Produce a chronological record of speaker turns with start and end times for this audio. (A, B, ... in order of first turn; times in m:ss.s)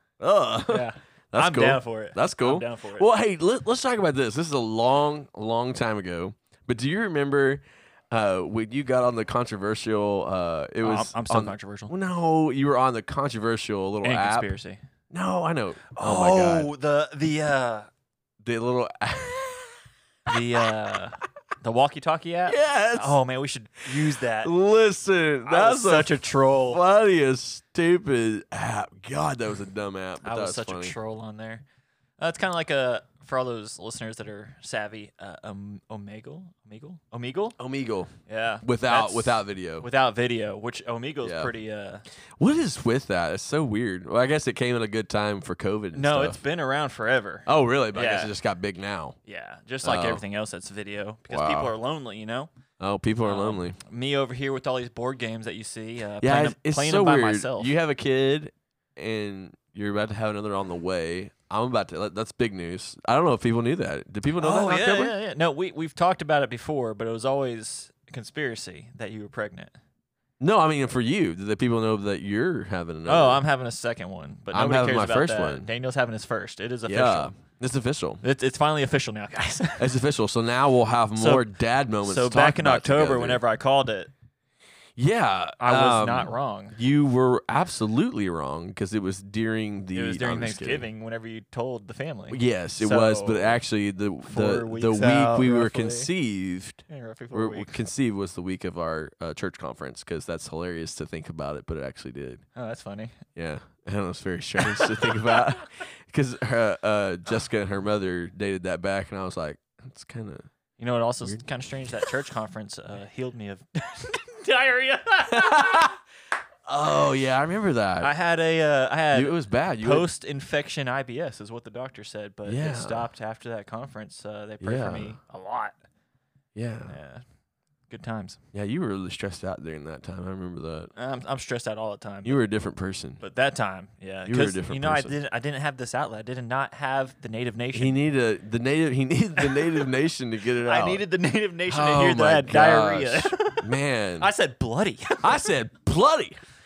0:00.2-0:14.5 A
0:00.7-0:03.1 B
0:10.8-0:11.9 B
0:14.0-0:14.8 B
0:15.1-0:16.7 A
0:15.9-0:17.9 B
0:18.4-0:19.8 A
0:20.3-0:24.5 B
0:22.5-0:23.2 A
0:24.0-0:31.0 A
0:25.4-0:26.8 B
0:30.2-0:31.6 B
0:32.2-0:37.6 B
0:37.6-0:38.1 A
0:38.3-0:42.0 B
0:38.6-0:39.9 A
0:41.2-0:41.5 A
0:42.4-0:46.4 A
0:46.0-0:48.3 B
0:47.5-0:49.2 A
0:49.3-0:52.5 B
0:49.8-0:50.2 A
0:51.3-0:51.7 A
0:52.8-0:53.8 A
0:53.2-0:57.7 B
0:56.2-1:05.2 A
1:04.4-1:09.8 B
1:10.4-1:13.4 A
1:13.1-1:17.3 B
1:14.5-1:15.7 A
1:16.9-1:18.2 A
1:18.2-1:20.0 B
1:19.8-1:23.4 A
1:21.2-1:21.5 B
1:22.0-1:24.1 B
1:25.0-1:30.9 A
1:25.6-1:26.8 B
1:29.9-1:33.6 B
1:32.3-1:42.4 A
1:34.2-1:36.1 B
1:36.9-1:37.8 B
1:42.6-1:43.2 B
1:43.4-1:50.5 A
1:44.6-1:45.5 B
1:50.8-1:55.9 B
1:55.3-1:56.0 A
1:56.7-1:58.1 A
1:58.0-2:05.8 B
1:59.1-2:00.1 A
2:02.5-2:03.1 A
2:04.6-2:05.2 A
2:06.6-2:07.0 A
2:06.9-2:07.2 B
2:07.9-2:08.4 B
2:08.5-2:10.9 A
2:11.0-2:12.4 B
2:12.2-2:13.2 A
2:13.2-2:18.0 B
2:14.3-2:15.2 A
2:17.7-2:21.0 A
2:19.4-2:19.9 B
2:20.6-2:23.6 B
2:21.7-2:24.3 A
2:24.2-2:25.5 B
2:25.2-2:26.4 A